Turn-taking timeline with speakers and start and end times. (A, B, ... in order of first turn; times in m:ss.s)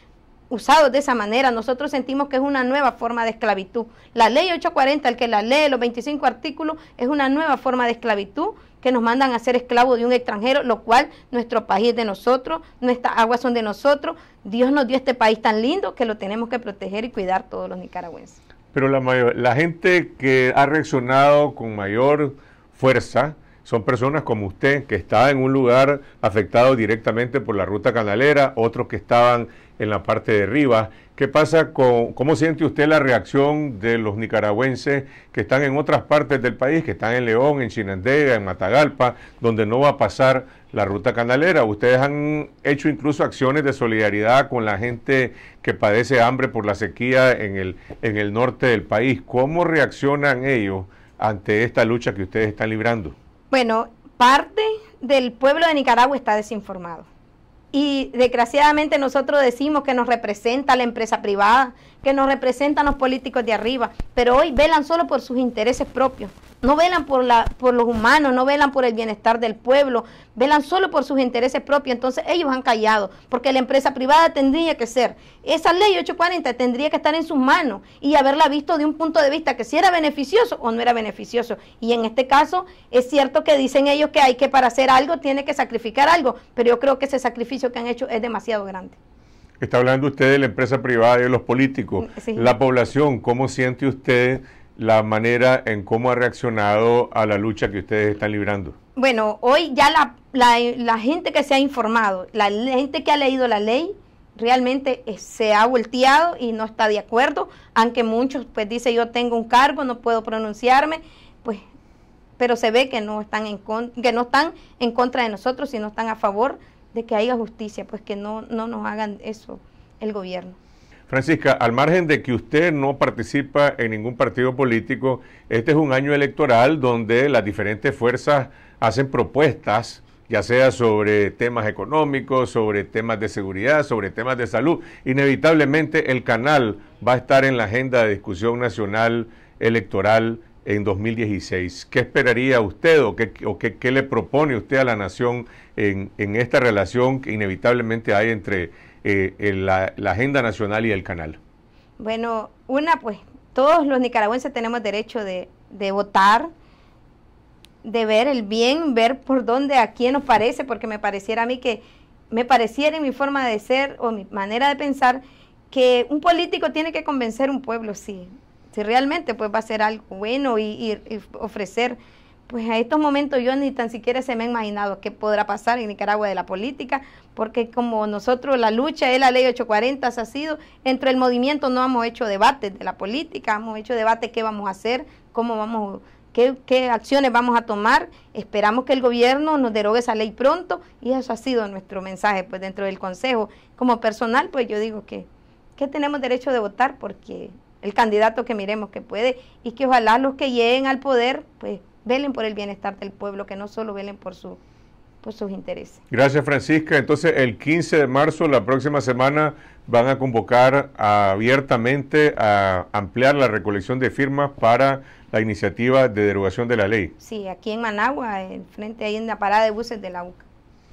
0:00.5-0:18.4 A
0:18.7-0:53.1 B
0:53.5-0:57.0 A
0:57.7-1:29.0 A
1:29.6-1:38.8 B
1:32.0-1:32.5 A
1:39.0-1:51.6 A
1:52.4-2:00.6 A
2:01.1-2:31.4 B
2:32.0-2:36.5 A
2:37.8-3:24.6 A
3:25.2-3:26.0 A
3:26.1-3:37.1 B
3:37.2-3:40.4 A